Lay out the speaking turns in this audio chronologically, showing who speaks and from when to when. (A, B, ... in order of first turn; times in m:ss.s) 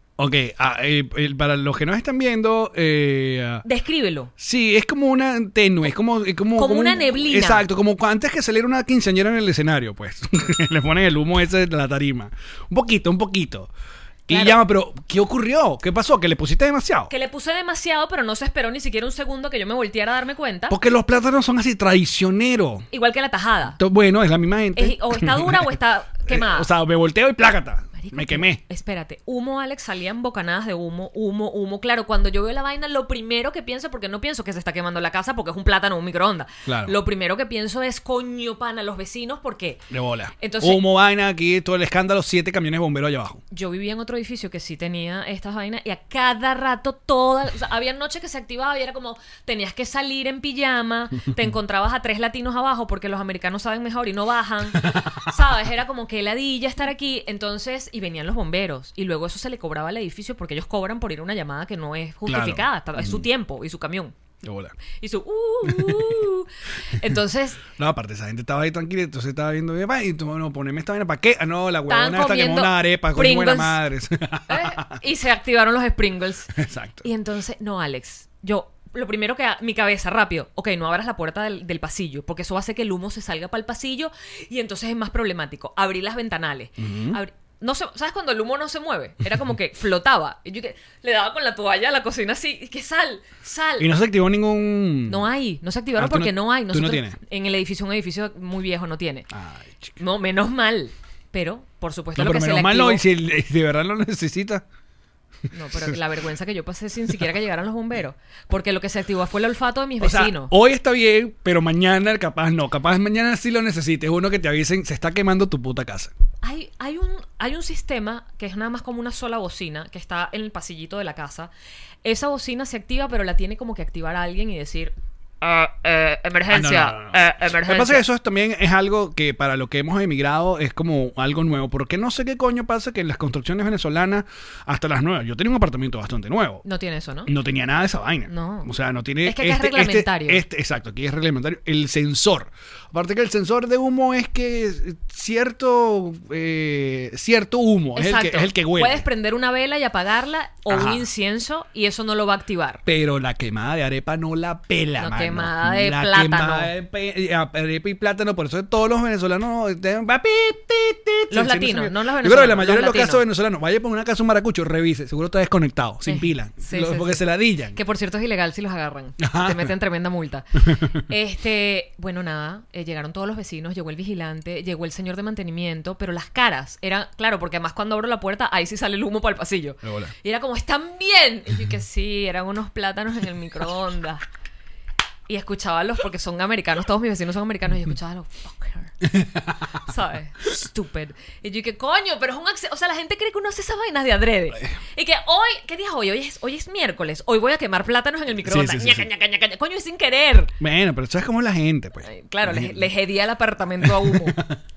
0:00.2-0:03.6 A
0:03.6-0:04.3 B
0:04.4-0:13.7 A
0:06.6-0:07.6 B
0:14.3-0:17.1 A
0:14.3-0:14.6 B
0:17.1-0:20.8 B
0:20.7-0:22.9 A
0:22.9-0:23.8 B
0:23.8-0:25.7 A
0:24.7-0:26.7 B
0:26.3-0:28.6 A
0:28.0-0:39.8 B
0:36.6-0:37.0 A
0:39.9-0:43.4 A
0:40.4-0:40.8 B
0:43.5-1:04.1 B
0:54.8-0:55.1 A
1:02.2-1:03.3 A
1:04.4-1:04.8 A
1:05.0-1:07.6 B
1:05.6-1:06.2 A
1:07.7-1:15.0 A
1:11.9-1:13.8 B
1:14.5-1:33.9 B
1:16.5-1:17.1 A
1:26.8-1:27.2 A
1:33.8-1:35.3 A
1:35.1-1:39.3 B
1:36.0-1:37.2 A
1:39.3-1:40.0 A
1:40.0-1:43.0 B
1:42.2-1:44.6 A
1:45.5-1:50.5 B
1:50.0-1:56.1 A
1:56.4-2:01.5 B
2:02.0-2:08.0 B
2:06.5-2:16.6 A
2:16.6-2:17.3 B
2:17.2-2:29.0 A
2:18.3-2:18.7 B
2:19.2-2:20.4 B
2:28.0-2:32.8 B
2:30.7-2:31.0 A
2:32.8-2:47.8 A
2:35.0-2:36.7 B
2:41.3-2:43.2 B
2:46.0-2:47.2 B
2:47.7-3:04.2 B
2:49.2-2:49.7 A
2:50.7-2:51.0 A
2:59.8-3:00.1 A
3:05.3-3:08.9 B
3:09.0-3:09.7 A
3:09.8-3:20.5 B
3:18.4-3:19.1 A
3:20.6-3:22.9 A
3:22.0-3:24.4 B
3:23.8-3:24.6 A